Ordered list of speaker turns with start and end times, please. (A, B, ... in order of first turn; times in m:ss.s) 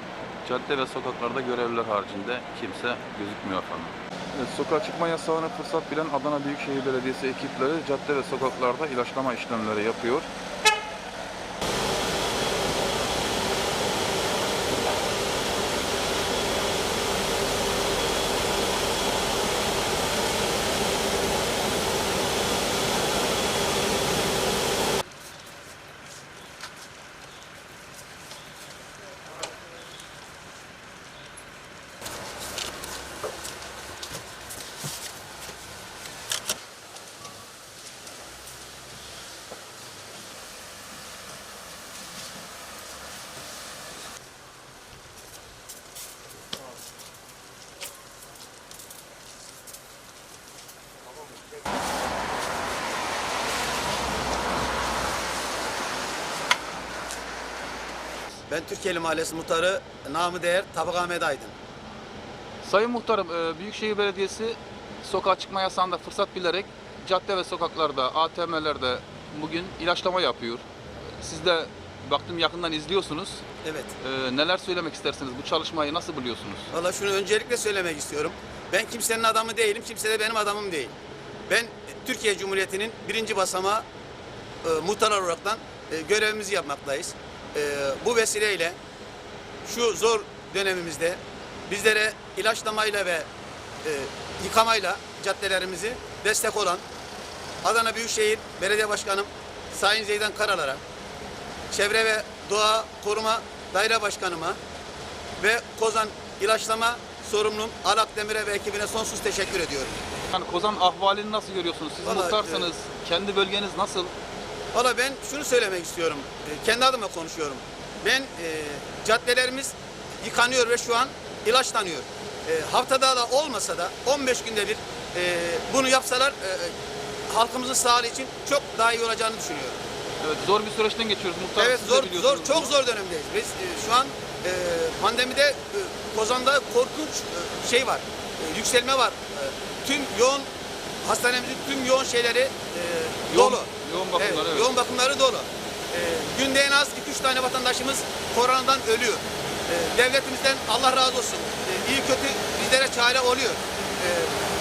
0:00.4-0:10.3 A
0:58.5-1:01.5 B
1:02.6-1:10.6 A
1:11.2-1:13.4 A
1:13.6-1:13.9 B
1:14.0-1:16.7 A
1:16.7-1:20.9 B
1:21.5-1:23.8 B
1:24.6-1:28.8 B
1:29.7-1:33.3 B
1:33.8-1:36.8 B
1:37.6-1:40.8 B
1:41.7-1:44.6 B
1:45.4-1:50.0 B
1:50.3-1:54.1 A
1:52.0-1:52.7 B
1:54.7-2:06.7 B
2:07.3-2:09.8 B
2:10.2-2:12.7 A
2:11.6-2:20.5 B
2:21.0-2:34.3 B
2:23.3-2:24.8 A